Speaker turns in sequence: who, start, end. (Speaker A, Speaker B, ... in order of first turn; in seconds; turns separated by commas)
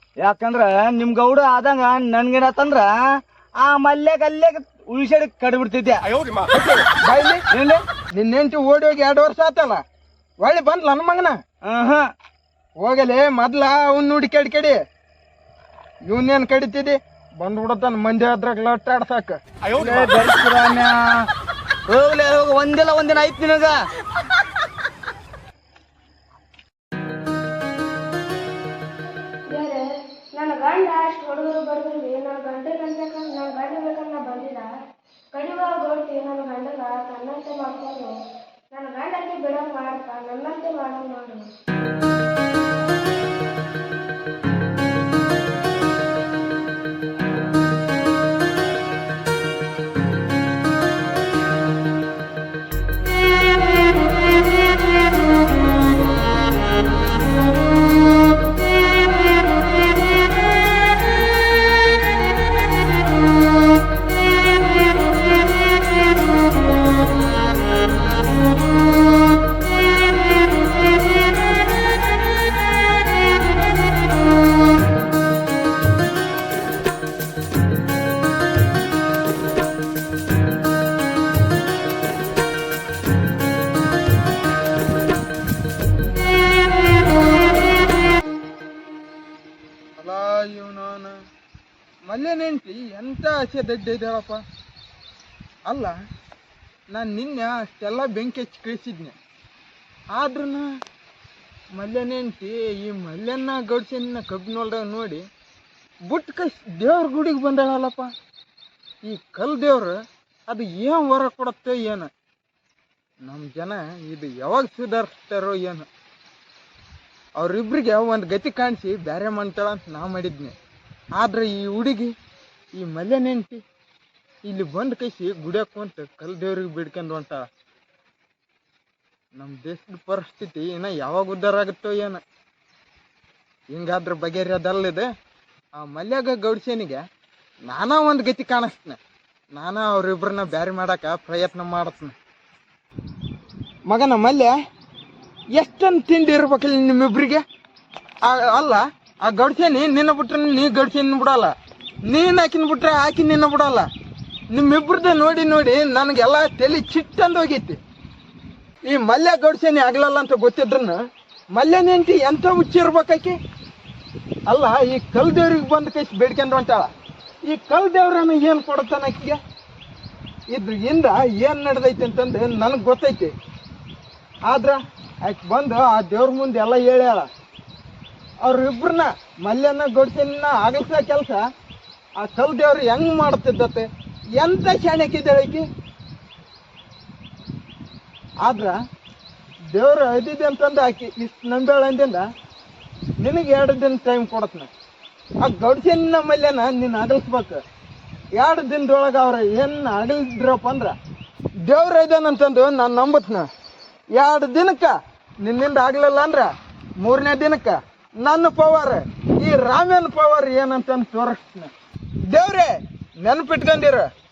Speaker A: 0.2-6.4, Speaker B: 6.5-7.4, Speaker A: 7.5-7.8, Speaker B: 8.2-9.8, Speaker B: 10.4-11.4, Speaker A: 11.6-12.1, Speaker B: 12.8-14.8, Speaker B: 16.1-19.4, Speaker A: 19.7-21.3, Speaker A: 21.9-23.9, Speaker C: 29.5-34.7, Speaker C: 35.3-38.1, Speaker C: 38.7-41.5, Speaker B: 90.0-91.1, Speaker B: 92.1-94.4, Speaker B: 95.7-95.9, Speaker B: 96.9-99.2, Speaker B: 100.1-100.7, Speaker B: 101.7-105.2, Speaker B: 106.1-108.1, Speaker B: 109.0-110.0, Speaker B: 110.5-112.1, Speaker B: 113.2-115.9, Speaker B: 117.4-120.5, Speaker B: 121.2-122.1, Speaker B: 122.7-123.6, Speaker B: 124.5-127.4, Speaker B: 129.3-132.2, Speaker B: 133.7-135.1, Speaker B: 135.8-137.0, Speaker B: 137.7-139.0, Speaker B: 139.5-142.2, Speaker B: 143.9-144.5, Speaker B: 145.5-147.4, Speaker B: 148.2-151.5, Speaker B: 152.1-153.9, Speaker B: 154.5-157.8, Speaker B: 158.9-161.0, Speaker B: 161.6-163.4, Speaker B: 164.5-166.9, Speaker B: 167.5-169.4, Speaker B: 170.5-173.3, Speaker B: 174.5-177.3, Speaker B: 178.4-181.4, Speaker B: 182.2-183.9, Speaker B: 184.4-185.7, Speaker B: 188.4-188.8, Speaker B: 189.7-192.2, Speaker B: 193.2-194.7, Speaker B: 195.4-197.6, Speaker B: 198.4-200.9, Speaker B: 201.6-203.5, Speaker B: 204.1-206.5, Speaker B: 207.0-211.7, Speaker B: 212.3-212.7, Speaker B: 213.2-214.1